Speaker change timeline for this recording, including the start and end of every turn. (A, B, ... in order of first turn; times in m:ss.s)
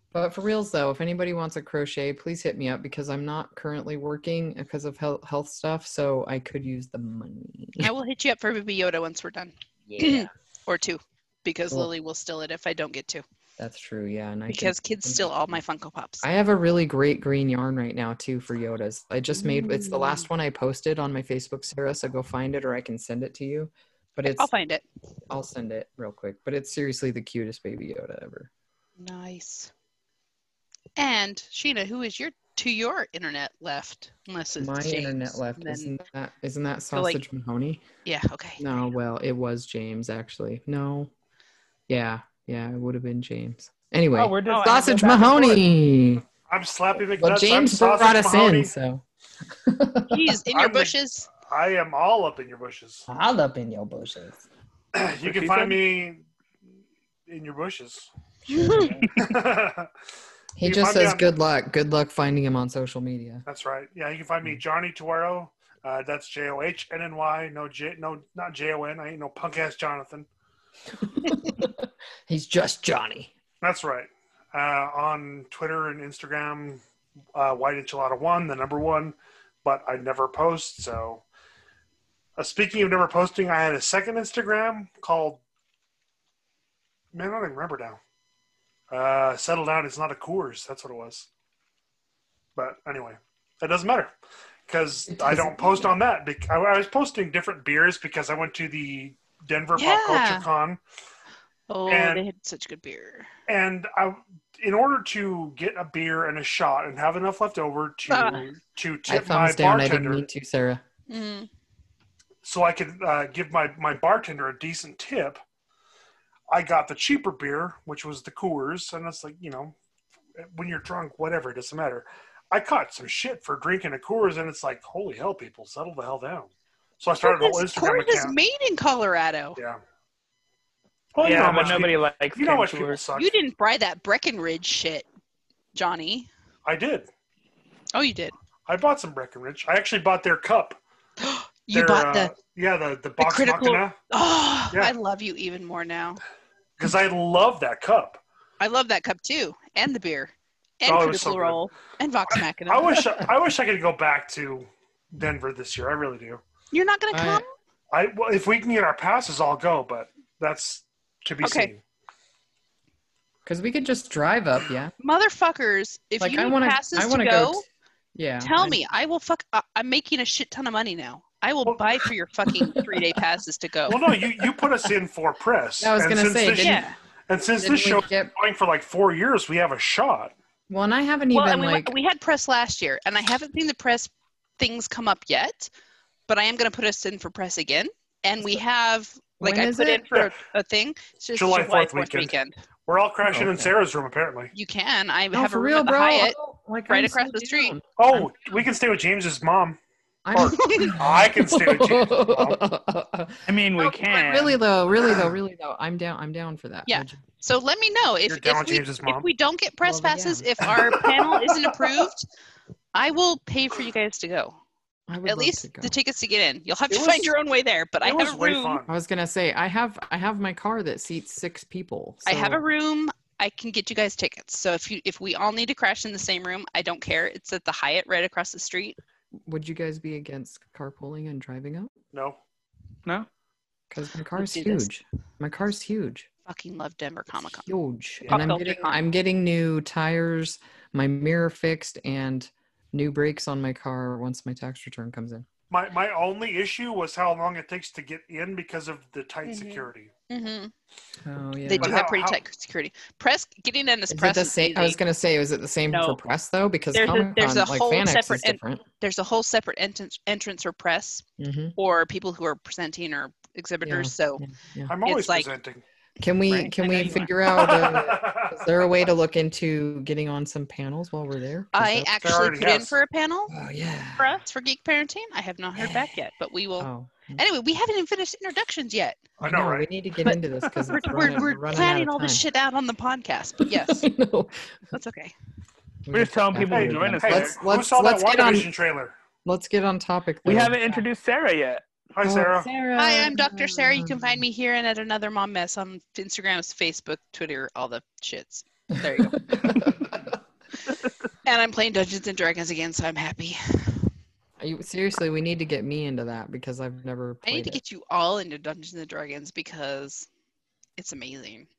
0:00.1-0:07.9 A
0:07.8-0:13.2 B
0:09.9-0:10.3 A
0:13.6-0:15.3 A
0:14.5-0:16.3 B
0:16.2-0:24.5 A
0:19.3-0:20.3 B
0:24.3-0:24.8 B
0:25.3-0:28.5 A
0:29.0-0:29.7 B
0:31.0-0:36.0 B
0:34.6-0:37.8 A
0:36.9-0:37.2 B
0:38.0-0:38.8 B
0:38.6-0:41.1 A
0:41.9-0:46.3 A
0:44.2-0:45.6 C
0:44.5-0:44.9 B
0:46.5-0:48.7 D
0:47.1-0:49.0 A
0:49.6-0:50.4 A
0:50.1-0:51.3 B
0:50.5-0:53.1 D
0:53.1-0:54.4 A
0:54.9-0:56.2 D
0:55.2-0:55.8 C
0:57.3-0:58.1 D
0:58.5-0:59.0 A
0:58.5-0:59.0 B
0:58.8-0:59.1 C
0:59.2-0:59.9 D
1:00.6-1:03.4 A
1:00.6-1:01.3 D
1:03.5-1:10.3 D
1:11.0-1:13.3 A
1:13.6-1:16.8 D
1:17.4-1:21.2 D
1:22.4-1:25.4 D
1:27.1-1:28.0 D
1:28.9-1:31.3 D
1:32.6-1:34.1 D
1:34.7-1:40.8 D
1:35.1-1:36.0 A
1:39.8-1:40.5 B
1:41.7-1:43.3 B
1:41.9-1:42.3 D
1:43.5-1:50.2 D
1:48.1-1:48.4 B
1:49.1-1:50.8 A
1:51.1-1:51.5 B
1:52.4-1:55.4 D
1:56.5-1:59.8 D
2:00.4-2:06.5 D
2:07.0-2:08.4 D
2:07.2-2:09.6 B
2:11.1-2:13.3 D
2:11.2-2:13.0 C
2:11.5-2:11.8 B
2:13.2-2:15.1 B
2:15.8-2:16.3 B
2:16.7-2:17.1 D
2:17.9-2:18.3 B
2:18.7-2:20.8 D
2:21.2-2:22.3 B
2:21.7-2:24.0 D
2:23.2-2:26.2 B
2:26.8-2:28.2 D
2:28.6-2:33.0 B
2:30.8-2:31.6 D
2:32.7-2:36.4 D
2:36.7-2:37.5 B
2:37.1-2:37.4 A
2:37.9-2:41.8 D
2:41.4-2:41.7 B
2:43.4-2:44.9 A
2:45.0-2:47.6 B
2:46.2-2:48.8 A
2:48.4-2:54.0 B
2:53.9-3:00.4 D
2:55.8-2:56.8 A
2:56.6-2:57.0 B
2:57.6-2:58.3 A
3:00.7-3:02.0 A
3:01.3-3:05.7 B
3:06.3-3:12.6 B
3:09.4-3:10.1 A
3:11.3-3:12.3 D
3:12.9-3:14.5 D
3:13.3-3:13.8 A
3:14.5-3:16.4 B
3:15.3-3:18.5 A
3:16.9-3:17.8 B
3:18.0-3:19.8 D
3:20.2-3:27.2 A
3:20.3-3:22.6 D
3:20.5-3:21.0 B
3:23.5-3:24.6 C
3:26.9-3:32.3 B
3:28.3-3:29.3 D
3:29.8-3:30.8 A
3:30.6-3:31.1 D
3:32.9-3:34.6 B
3:35.1-3:36.0 A
3:35.3-3:38.8 B
3:36.9-3:37.3 D
3:38.0-3:38.9 D
3:38.9-3:42.6 A
3:42.3-3:49.0 B
3:49.4-3:51.9 A
3:52.1-3:52.4 D
3:53.9-3:56.3 A
3:54.4-3:54.9 B
3:56.5-3:57.7 B
3:57.4-4:05.5 A
3:58.2-3:58.5 D
3:58.3-3:59.0 B
4:05.7-4:10.1 D
4:09.5-4:10.7 B
4:11.2-4:12.0 A
4:11.7-4:15.0 B
4:11.8-4:12.4 D
4:14.1-4:18.8 A
4:15.9-4:16.2 B
4:16.9-4:21.2 B
4:21.4-4:21.8 A
4:21.8-4:24.4 B
4:23.8-4:24.9 A
4:24.9-4:25.8 D
4:25.0-4:25.5 B
4:26.2-4:32.4 A
4:26.5-4:27.3 B
4:27.4-4:28.9 D
4:31.7-4:33.5 B
4:32.2-4:33.0 D
4:33.5-4:34.4 A
4:34.2-4:39.2 B
4:35.8-4:36.1 A
4:36.8-4:37.4 A
4:39.4-4:39.9 D
4:39.4-4:42.4 A
4:40.9-4:44.1 B
4:43.7-4:44.7 A
4:44.9-4:45.3 B
4:46.1-4:48.7 A
4:46.1-4:47.6 C
4:46.7-4:49.2 D
4:49.4-4:51.1 A
4:50.4-4:51.8 C
4:52.1-4:52.7 D
4:52.2-4:54.4 A
4:53.0-4:59.6 B
4:59.1-5:00.2 A
5:01.4-5:04.1 B
5:04.6-5:07.8 A
5:07.4-5:10.3 B
5:11.0-5:11.7 B